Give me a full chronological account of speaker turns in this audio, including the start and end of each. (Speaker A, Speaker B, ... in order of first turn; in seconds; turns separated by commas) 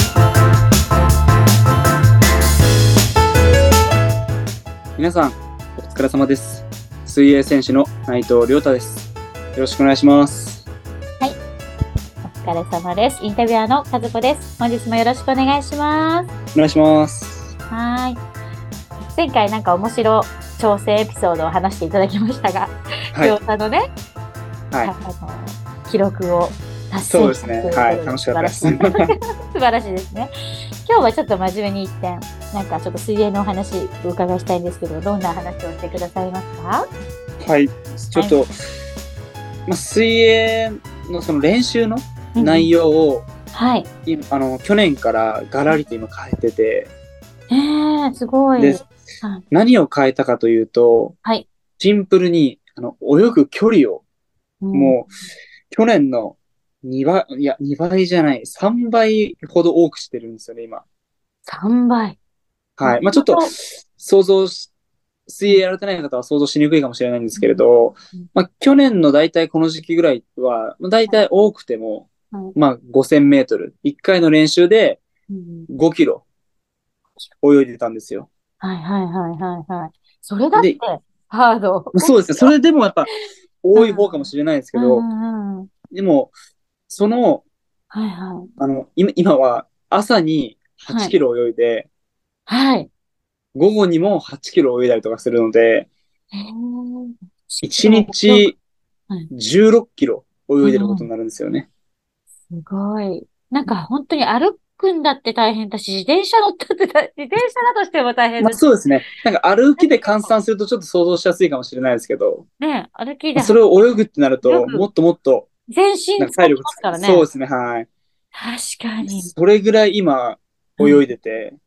Speaker A: 5.0-10.7, Speaker B: 12.2-16.3, Speaker A: 16.6-17.5, Speaker B: 17.7-18.2, Speaker B: 19.1-23.9, Speaker A: 23.1-23.4, Speaker B: 24.8-30.3, Speaker A: 27.1-29.1, Speaker B: 30.9-36.9, Speaker A: 37.4-38.5, Speaker A: 39.7-43.3, Speaker B: 42.4-42.7, Speaker B: 43.5-43.9, Speaker A: 44.1-46.9, Speaker B: 47.5-49.4, Speaker A: 48.6-48.9, Speaker A: 49.5-51.1, Speaker A: 51.8-54.0, Speaker B: 54.6-55.0, Speaker A: 54.7-55.1, Speaker A: 55.7-60.8, Speaker B: 61.5-62.2, Speaker A: 62.8-64.7, Speaker B: 62.8-63.5, Speaker A: 65.3-75.0, Speaker B: 67.3-67.6, Speaker B: 75.3-75.7, Speaker A: 75.7-76.2, Speaker A: 77.4-78.3, Speaker B: 78.6-82.5, Speaker A: 80.5-80.8, Speaker A: 81.9-83.1, Speaker A: 83.6-85.1, Speaker B: 83.8-85.7, Speaker A: 85.9-86.3, Speaker A: 86.9-87.4, Speaker B: 87.9-88.5, Speaker A: 88.6-91.9, Speaker B: 90.9-91.2, Speaker B: 92.5-92.9, Speaker A: 93.6-95.9, Speaker B: 96.3-98.5, Speaker A: 97.6-98.5, Speaker A: 99.3-101.7, Speaker B: 100.6-101.1, Speaker B: 102.5-108.6, Speaker A: 108.4-112.4, Speaker B: 109.8-110.3, Speaker B: 112.6-113.6, Speaker A: 113.3-115.5, Speaker B: 114.4-114.9, Speaker B: 115.7-117.3, Speaker A: 116.2-117.9, Speaker B: 118.3-119.3, Speaker A: 119.0-121.6, Speaker B: 120.8-121.1